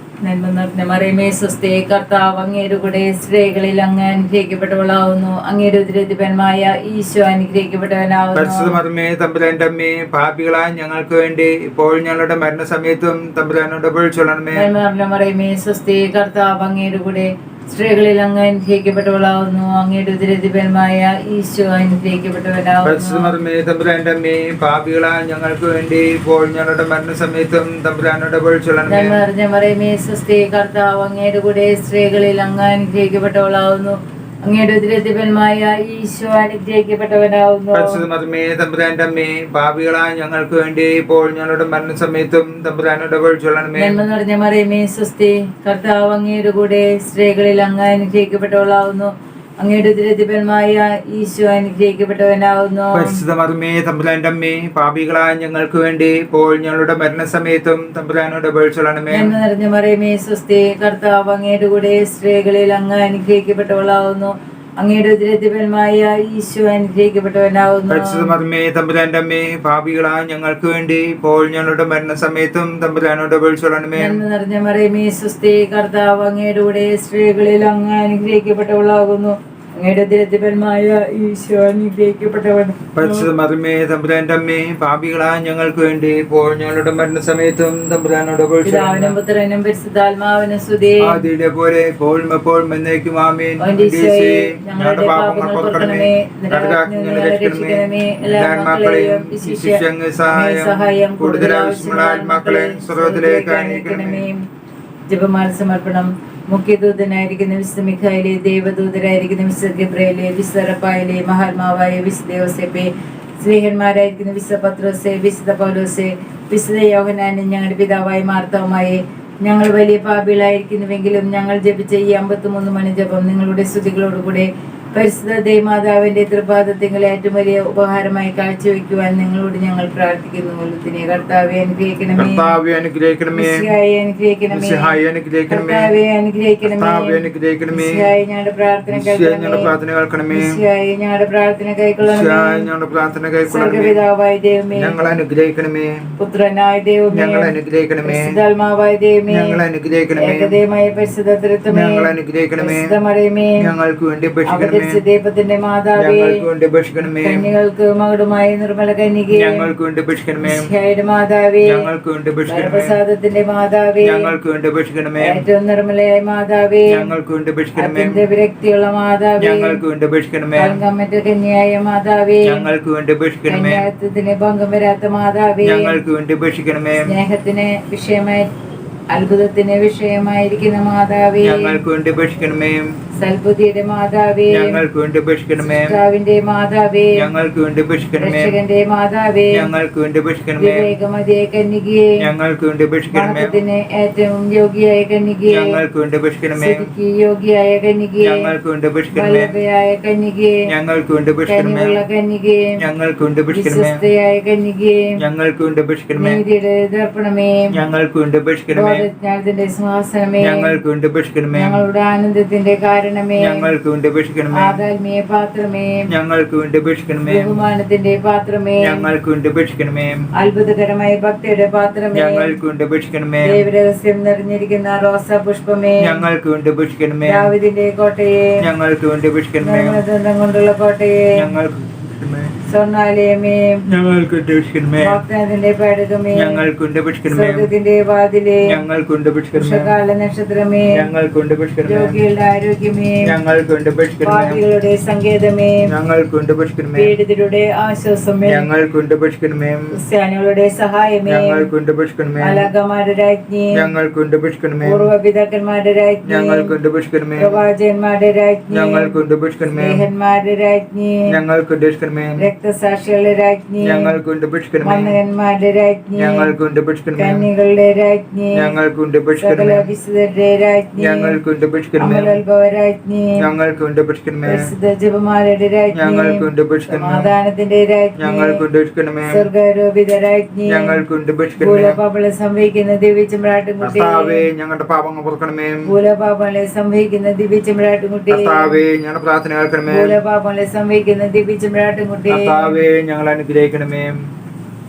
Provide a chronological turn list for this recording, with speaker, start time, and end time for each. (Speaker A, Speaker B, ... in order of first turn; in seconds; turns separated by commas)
Speaker A: 0.2-8.8, Speaker B: 8.3-14.7, Speaker A: 14.5-23.4, Speaker B: 22.8-29.2, Speaker A: 28.9-38.0, Speaker B: 37.7-44.0, Speaker A: 43.8-53.2, Speaker B: 52.9-59.3, Speaker A: 59.1-68.3, Speaker B: 67.9-74.2, Speaker A: 74.0-83.3, Speaker B: 83.0-89.2, Speaker A: 88.6-91.2, Speaker B: 91.0-104.2, Speaker A: 93.6-104.4, Speaker A: 105.1-112.9, Speaker A: 113.4-132.5, Speaker B: 132.2-133.7, Speaker A: 133.3-134.9, Speaker B: 134.5-135.9, Speaker A: 135.5-139.7, Speaker B: 136.6-138.0, Speaker B: 138.9-140.6, Speaker A: 140.3-142.7, Speaker B: 142.0-144.0, Speaker A: 143.4-144.9, Speaker B: 144.7-146.0, Speaker A: 146.2-147.5, Speaker B: 147.1-148.3, Speaker A: 148.0-149.6, Speaker B: 149.3-150.6, Speaker A: 150.2-153.7, Speaker B: 151.7-152.9, Speaker B: 153.6-155.0, Speaker A: 154.4-156.4, Speaker B: 156.0-157.4, Speaker A: 157.2-159.7, Speaker B: 159.3-160.7, Speaker A: 160.4-161.8, Speaker B: 161.6-162.9, Speaker A: 162.5-164.3, Speaker B: 164.0-165.4, Speaker A: 165.2-167.0, Speaker B: 166.9-168.2, Speaker A: 167.8-169.8, Speaker B: 169.4-170.8, Speaker A: 170.6-172.6, Speaker B: 172.4-173.8, Speaker A: 173.5-176.0, Speaker B: 175.6-177.1, Speaker A: 176.9-178.5, Speaker A: 179.1-181.7, Speaker B: 181.4-182.9, Speaker A: 183.2-184.8, Speaker B: 184.5-186.0, Speaker A: 185.6-187.3, Speaker B: 187.2-188.6, Speaker A: 188.2-189.7, Speaker B: 189.5-190.9, Speaker A: 190.6-192.2, Speaker B: 192.2-193.6, Speaker A: 193.1-195.7, Speaker B: 195.5-196.9, Speaker A: 196.6-198.5, Speaker B: 198.2-199.5, Speaker A: 199.1-200.6, Speaker B: 200.7-202.0, Speaker A: 201.5-202.7, Speaker B: 202.8-204.0, Speaker A: 203.5-205.1, Speaker B: 205.2-206.4, Speaker A: 206.2-207.7, Speaker B: 207.7-209.0, Speaker A: 208.7-210.7, Speaker B: 210.4-211.8, Speaker A: 211.5-213.7, Speaker B: 213.4-214.8, Speaker A: 214.5-216.1, Speaker B: 216.1-217.6, Speaker A: 217.2-219.0, Speaker B: 218.8-220.2, Speaker A: 220.3-222.6, Speaker B: 222.1-223.6, Speaker A: 223.4-226.2, Speaker B: 226.0-227.5, Speaker A: 227.2-228.6, Speaker B: 228.6-230.0, Speaker A: 229.6-231.4, Speaker B: 231.3-232.5, Speaker A: 232.7-233.8, Speaker B: 233.9-235.2, Speaker A: 235.0-236.6, Speaker B: 236.3-237.7, Speaker A: 237.3-238.8, Speaker B: 238.7-239.9, Speaker A: 239.6-241.0, Speaker B: 240.9-242.1, Speaker A: 241.8-243.3, Speaker B: 243.2-244.6, Speaker A: 244.2-245.9, Speaker B: 245.9-247.1, Speaker A: 246.9-248.7, Speaker B: 248.5-249.9, Speaker A: 249.9-251.7, Speaker B: 251.3-252.7, Speaker A: 252.4-253.8, Speaker B: 253.7-255.1, Speaker A: 254.8-256.7, Speaker B: 256.3-257.6, Speaker A: 257.4-259.1, Speaker B: 258.7-260.1, Speaker A: 259.7-261.3, Speaker B: 261.3-262.4, Speaker A: 262.4-264.1, Speaker B: 263.8-265.2, Speaker A: 264.8-266.5, Speaker B: 266.2-267.4, Speaker A: 267.2-268.7, Speaker B: 268.5-269.9, Speaker A: 269.4-271.4, Speaker B: 271.0-272.4, Speaker A: 272.0-273.4, Speaker B: 273.4-274.7, Speaker A: 274.4-278.6, Speaker B: 275.9-277.3, Speaker B: 278.2-279.4, Speaker A: 279.3-281.0, Speaker B: 280.7-282.0, Speaker A: 281.6-284.4, Speaker B: 283.8-285.9, Speaker A: 285.9-288.8, Speaker B: 288.3-290.2, Speaker A: 289.9-292.8, Speaker B: 292.3-294.2